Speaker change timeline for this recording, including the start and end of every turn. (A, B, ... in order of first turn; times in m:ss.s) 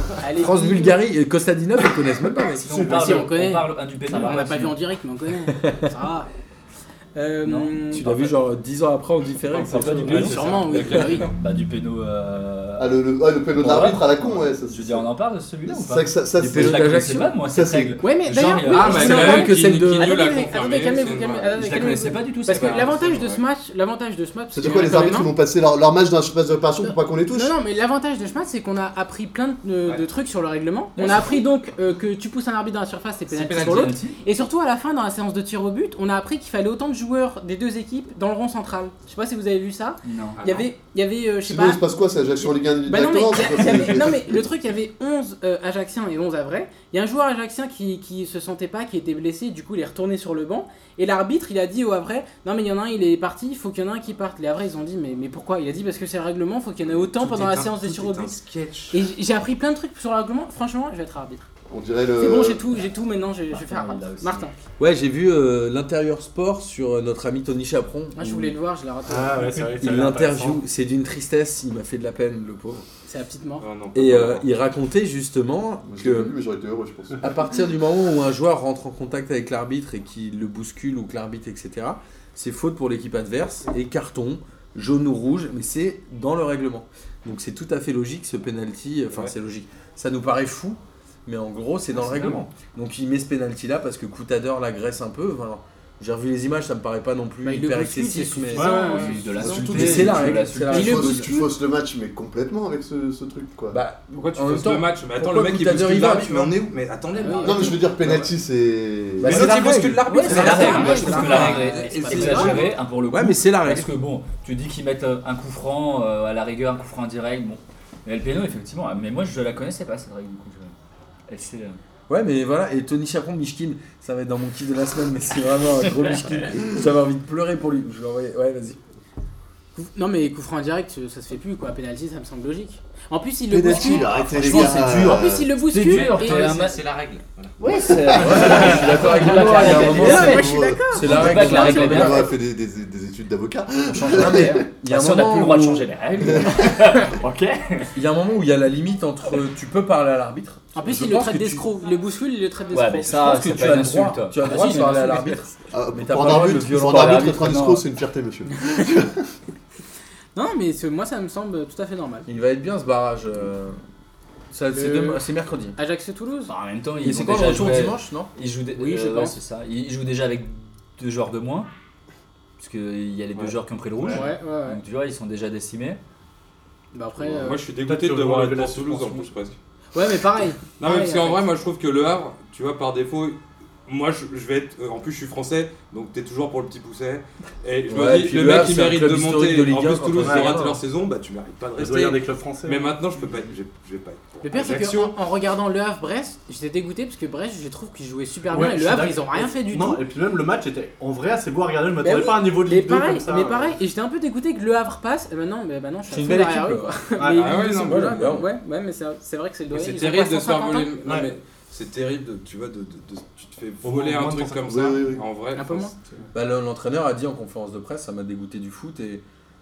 0:00.2-0:01.0 A
0:00.3-0:03.1 B
0:02.5-0:04.8 C
0:02.7-0:03.2 D
0:02.8-0:06.3 A
0:07.1-0:08.2 A
0:07.4-0:08.3 C
0:07.9-0:11.2 B
0:09.5-0:10.6 D
0:09.6-0:19.4 C
0:10.0-0:11.3 A
0:10.7-0:11.2 E
0:12.8-0:15.1 F
0:15.6-0:18.0 F
0:16.4-0:17.4 B
0:18.0-0:25.3 A
0:18.7-0:21.5 E
0:18.8-0:20.2 B
0:21.5-0:23.2 C
0:22.5-0:23.4 E
0:24.5-0:27.5 F
0:24.6-0:25.0 E
0:26.8-0:41.8 A
0:31.0-0:31.4 B
0:33.3-0:33.9 E
0:33.6-0:34.2 C
0:40.0-0:40.4 C
0:40.4-0:40.6 E
0:41.4-0:44.5 F
0:42.8-0:58.3 A
0:56.9-0:59.0 E
0:58.9-1:01.4 A
1:01.7-1:02.6 F
1:02.2-1:04.5 A
1:03.5-1:04.5 C
1:04.8-1:08.6 B
1:08.1-1:09.7 A
1:09.0-1:10.6 D
1:09.8-1:12.8 B
1:13.1-1:13.6 A
1:13.6-1:14.5 E
1:13.9-1:16.3 B
1:15.8-1:17.3 F
1:17.2-1:41.3 B
1:32.0-1:32.4 C
1:37.4-1:39.9 A
1:38.5-1:39.4 D
1:38.7-1:41.1 C
1:39.4-1:43.8 F
1:40.7-1:41.5 A
1:43.7-1:46.6 B
1:44.1-1:48.3 E
1:47.2-1:47.8 A
1:47.4-1:49.5 F
1:49.2-1:51.6 B
1:49.2-1:52.7 E
1:50.1-2:00.7 C
1:50.2-1:52.7 A
1:53.1-1:53.9 B
2:01.3-2:01.8 C
2:02.1-2:08.8 B
2:09.8-2:16.5 A
2:13.5-2:15.5 F
2:14.2-2:15.2 B
2:14.5-2:14.7 C
2:15.6-2:16.8 C
2:15.9-2:17.5 E
2:17.6-2:22.3 C
2:18.0-2:24.7 F
2:18.2-2:22.3 B
2:19.3-2:22.3 A
2:23.9-2:27.9 C
2:24.0-2:26.5 B
2:26.2-2:26.9 F
2:27.9-2:31.6 B
2:30.7-2:35.4 A
2:32.7-2:35.0 C
2:33.0-2:37.7 B
2:35.7-2:39.2 F
2:36.5-2:37.8 C
2:40.3-2:42.3 A
2:42.3-2:43.8 B
2:44.5-2:45.8 B
2:44.7-2:45.2 A
2:45.8-2:46.5 A
2:46.5-2:51.7 C
2:47.0-2:48.3 B
2:48.8-2:49.4 A
2:52.6-2:56.0 C
2:54.1-2:54.8 A
2:56.9-2:57.6 A
2:57.2-2:59.6 E
2:57.8-2:59.3 D
2:59.9-3:01.4 A
3:00.8-3:15.2 E
3:07.9-3:10.8 B
3:10.2-3:10.5 D
3:11.8-3:12.9 D
3:14.4-3:20.0 A
3:18.5-3:23.8 D
3:22.0-3:31.0 A
3:26.1-3:27.0 B
3:27.2-3:27.6 D
3:27.2-3:28.4 E
3:27.6-3:28.5 B
3:29.7-3:35.9 E
3:33.8-3:34.8 D
3:34.7-3:35.2 F
3:35.5-3:35.9 A
3:36.3-3:39.2 B